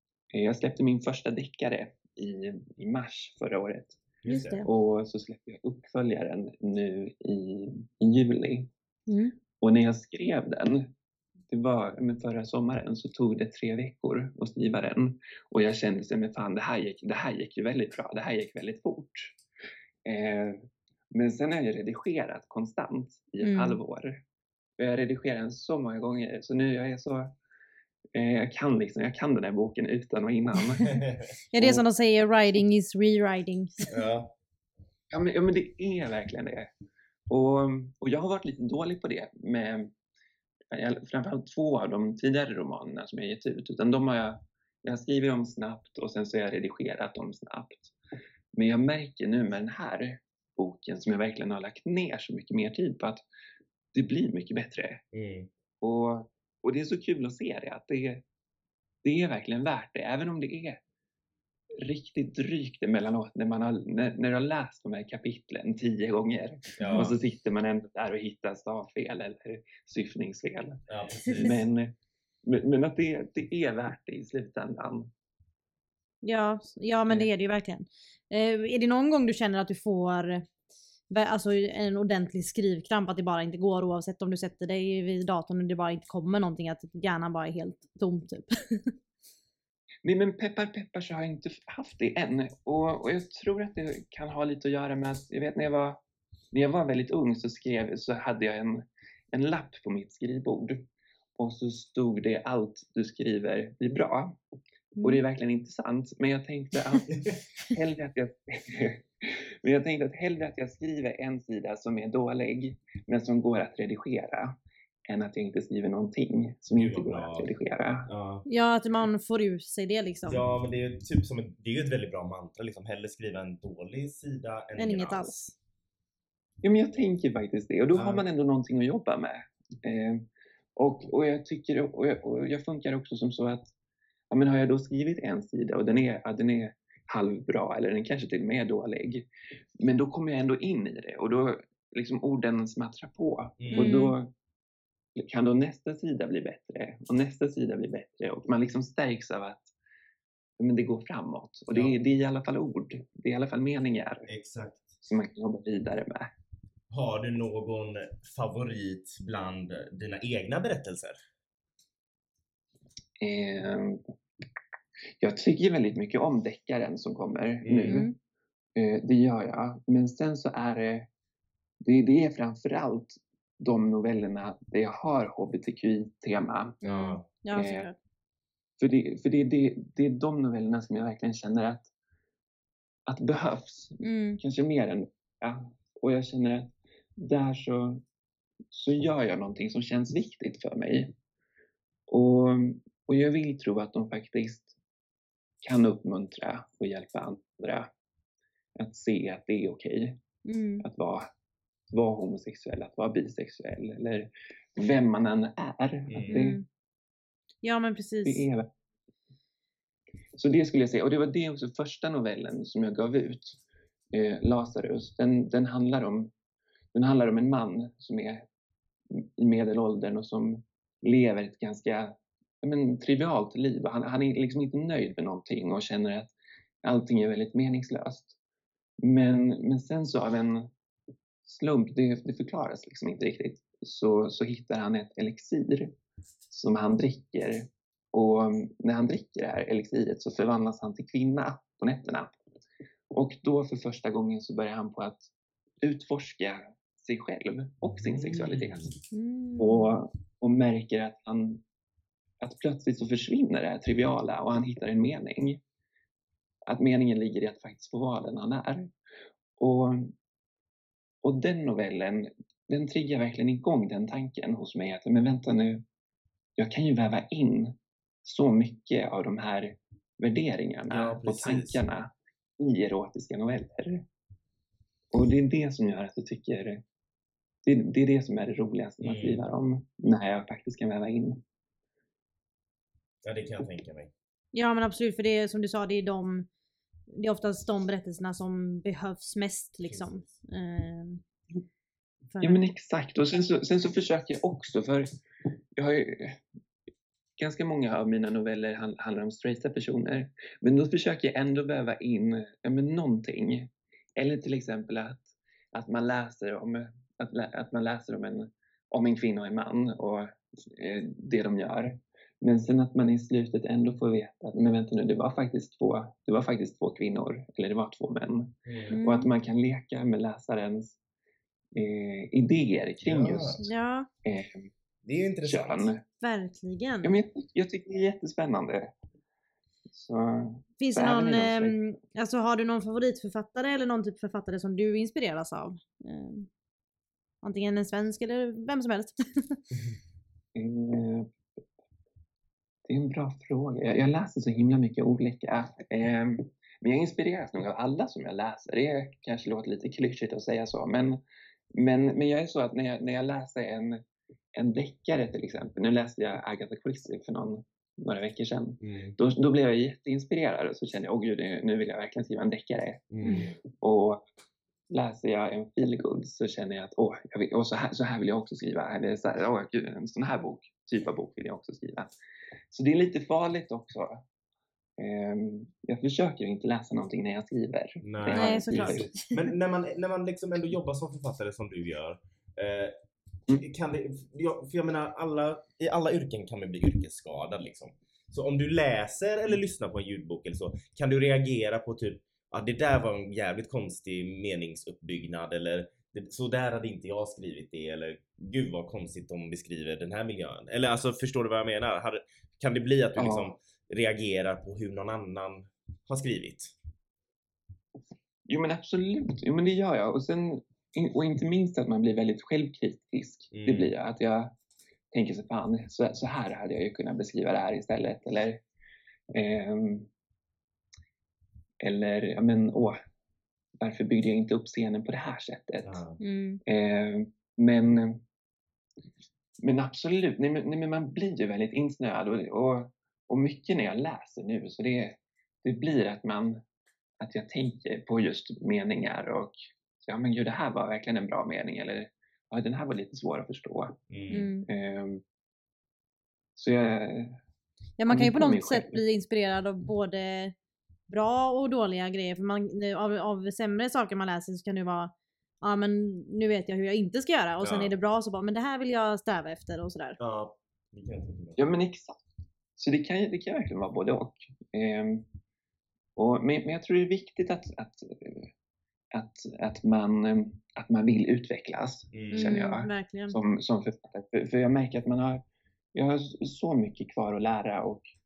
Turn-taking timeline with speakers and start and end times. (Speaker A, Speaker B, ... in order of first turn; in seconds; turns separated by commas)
Speaker A: 0.3-4.0, Speaker B: 4.2-4.7, Speaker C: 4.2-4.7, Speaker A: 4.6-8.7, Speaker C: 9.1-9.3, Speaker A: 9.6-10.9, Speaker A: 11.5-19.4, Speaker A: 20.1-24.2, Speaker C: 23.4-23.8, Speaker A: 24.8-27.3, Speaker A: 28.1-30.9, Speaker B: 30.9-31.3, Speaker C: 31.5-33.9, Speaker A: 31.6-31.9, Speaker B: 33.9-34.3, Speaker A: 35.1-36.7, Speaker A: 37.3-39.9, Speaker A: 40.7-48.0, Speaker A: 48.5-53.2, Speaker A: 53.9-55.0, Speaker B: 55.1-55.5, Speaker A: 55.8-58.2, Speaker A: 59.0-60.8, Speaker A: 61.8-70.8, Speaker B: 66.8-67.1, Speaker B: 70.9-71.6, Speaker A: 71.4-71.9, Speaker A: 72.4-75.1, Speaker C: 76.2-80.5, Speaker C: 81.1-88.9, Speaker A: 90.0-96.0, Speaker A: 96.5-104.4, Speaker C: 105.0-105.2, Speaker A: 105.0-107.2, Speaker A: 107.7-118.1, Speaker B: 116.7-117.5, Speaker B: 118.0-118.5, Speaker C: 118.5-120.4, Speaker B: 120.3-125.3, Speaker C: 124.8-125.5, Speaker A: 126.6-130.2, Speaker B: 127.9-128.2, Speaker A: 130.8-133.7, Speaker A: 134.3-139.3, Speaker A: 139.8-144.3, Speaker B: 143.6-144.0, Speaker C: 143.7-144.1, Speaker A: 145.2-149.7, Speaker A: 150.6-154.3, Speaker B: 151.7-152.0, Speaker B: 154.3-155.0, Speaker A: 155.0-156.3, Speaker B: 156.9-161.2, Speaker A: 163.2-164.0, Speaker A: 165.2-168.1, Speaker B: 167.6-168.0, Speaker C: 167.9-168.2, Speaker A: 168.8-171.1, Speaker A: 171.8-176.8, Speaker B: 176.8-177.3, Speaker C: 176.8-177.9, Speaker A: 177.5-177.9, Speaker A: 178.8-181.9, Speaker A: 183.1-188.0, Speaker C: 184.0-184.4, Speaker A: 188.7-191.1, Speaker A: 192.1-194.8, Speaker A: 195.6-197.9, Speaker A: 198.8-200.2, Speaker C: 200.4-200.8, Speaker A: 200.8-201.3, Speaker A: 201.9-206.6, Speaker B: 206.1-206.5, Speaker C: 206.3-206.7, Speaker C: 207.6-208.5, Speaker A: 208.2-208.7, Speaker A: 210.3-213.6, Speaker A: 214.1-216.3, Speaker A: 216.9-218.4, Speaker A: 219.1-228.4, Speaker A: 229.0-230.7, Speaker A: 231.4-235.9, Speaker A: 236.5-242.3, Speaker A: 243.1-245.3, Speaker A: 245.8-248.9, Speaker B: 248.0-248.9, Speaker C: 249.1-249.9, Speaker A: 249.6-251.6, Speaker A: 252.4-255.6, Speaker A: 256.7-258.9, Speaker A: 259.6-260.1, Speaker A: 261.2-265.8, Speaker A: 266.6-274.0, Speaker B: 270.9-271.9, Speaker A: 275.1-276.8, Speaker A: 277.6-281.4, Speaker B: 279.0-279.4, Speaker B: 283.2-284.1, Speaker C: 284.5-286.5, Speaker C: 287.1-291.2, Speaker B: 289.8-290.3, Speaker C: 292.3-292.6, Speaker A: 292.4-295.1, Speaker A: 295.8-296.4, Speaker A: 297.4-321.0, Speaker B: 318.7-319.0, Speaker C: 318.9-319.3, Speaker A: 321.7-323.6, Speaker B: 323.0-323.7, Speaker C: 323.6-324.1, Speaker A: 324.2-324.7, Speaker B: 325.1-325.9, Speaker A: 325.4-326.0, Speaker C: 326.2-327.2, Speaker A: 327.0-328.9, Speaker A: 329.9-331.8, Speaker C: 330.8-336.5, Speaker C: 337.4-339.6, Speaker A: 340.6-341.3, Speaker A: 342.9-351.2, Speaker A: 351.7-354.0, Speaker A: 354.6-364.2, Speaker B: 358.8-359.2, Speaker B: 363.1-363.5, Speaker A: 364.9-372.1, Speaker A: 372.7-374.2, Speaker A: 375.0-379.1, Speaker B: 378.0-382.9, Speaker C: 378.3-379.4, Speaker B: 383.5-406.7, Speaker A: 403.2-403.6, Speaker A: 408.5-414.5, Speaker B: 413.5-413.9, Speaker A: 415.1-418.6, Speaker A: 419.3-420.1, Speaker A: 421.8-423.0, Speaker A: 423.8-426.0, Speaker B: 425.8-426.2, Speaker C: 426.2-426.6, Speaker A: 426.7-428.2, Speaker A: 429.6-436.6, Speaker A: 437.2-444.0, Speaker B: 444.1-444.5, Speaker C: 444.3-444.7, Speaker A: 444.7-445.2, Speaker A: 446.6-447.4, Speaker C: 448.0-450.5, Speaker A: 448.1-449.0, Speaker C: 451.1-460.2, Speaker B: 457.6-457.9, Speaker B: 460.2-461.6, Speaker A: 461.6-465.3, Speaker A: 466.2-468.5, Speaker A: 469.1-475.4, Speaker B: 472.1-472.5, Speaker C: 472.3-473.4, Speaker A: 475.9-478.1